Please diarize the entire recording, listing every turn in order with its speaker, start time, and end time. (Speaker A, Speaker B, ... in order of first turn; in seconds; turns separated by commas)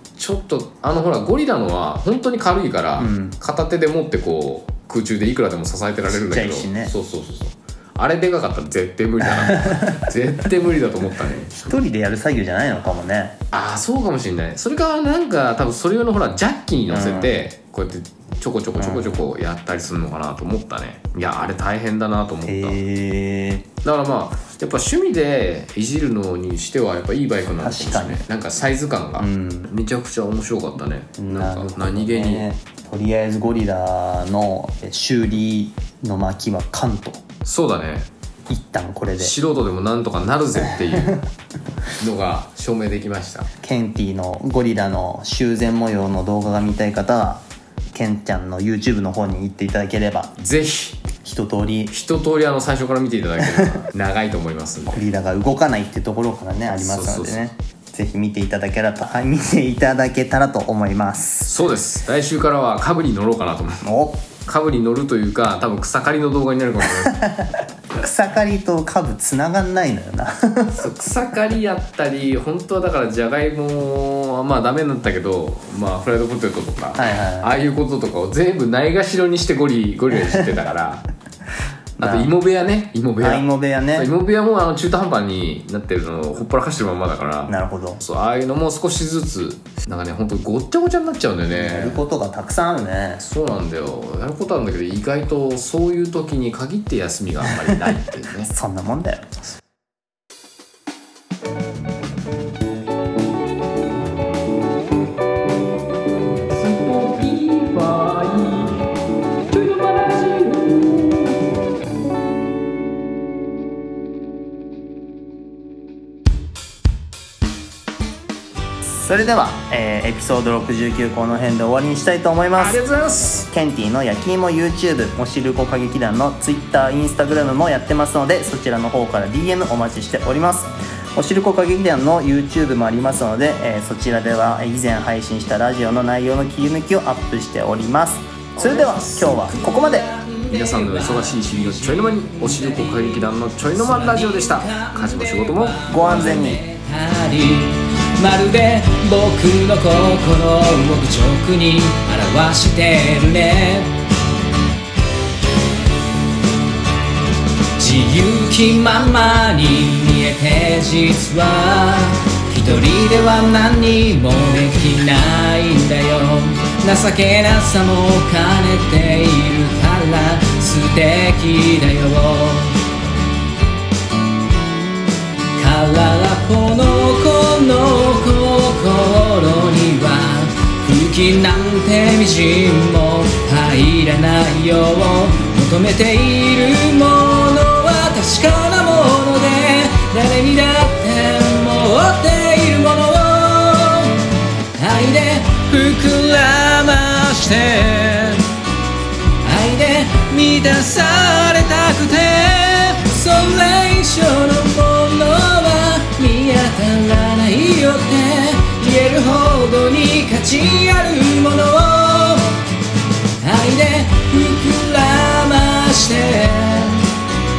Speaker A: 0.2-11.7, Speaker B: 3.0-3.4, Speaker B: 6.1-6.9, Speaker B: 9.4-10.0, Speaker B: 11.6-13.4, Speaker A: 13.5-22.8, Speaker B: 16.9-17.4, Speaker B: 18.8-19.3, Speaker B: 22.4-23.6, Speaker A: 23.8-32.5, Speaker B: 27.6-28.2, Speaker B: 29.2-29.7, Speaker B: 31.2-37.2, Speaker A: 37.5-38.1, Speaker B: 38.5-39.4, Speaker A: 39.2-41.2, Speaker B: 40.9-41.2, Speaker A: 42.0-43.5, Speaker B: 43.6-47.4, Speaker B: 47.9-50.3, Speaker A: 50.4-51.0, Speaker B: 51.2-51.9, Speaker A: 51.9-55.1, Speaker B: 53.4-53.8, Speaker B: 54.9-61.5, Speaker A: 56.8-57.4, Speaker A: 61.5-67.2, Speaker B: 63.8-64.2, Speaker B: 67.0-70.8, Speaker A: 70.7-81.1, Speaker B: 77.0-77.5, Speaker B: 82.0-82.3, Speaker A: 82.0-92.0, Speaker B: 83.2-84.1, Speaker B: 87.5-88.0, Speaker B: 91.5-93.2, Speaker A: 93.2-98.5, Speaker B: 98.5-99.6, Speaker A: 106.5-108.7, Speaker A: 109.5-110.7, Speaker C: 110.7-111.1, Speaker B: 119.0-140.1, Speaker A: 122.6-123.5, Speaker A: 138.6-146.3, Speaker C: 139.5-153.9, Speaker B: 145.9-146.6, Speaker C: 157.8-172.8, Speaker C: 175.6-198.5, Speaker C: 199.4-212.5, Speaker C: 213.4-217.1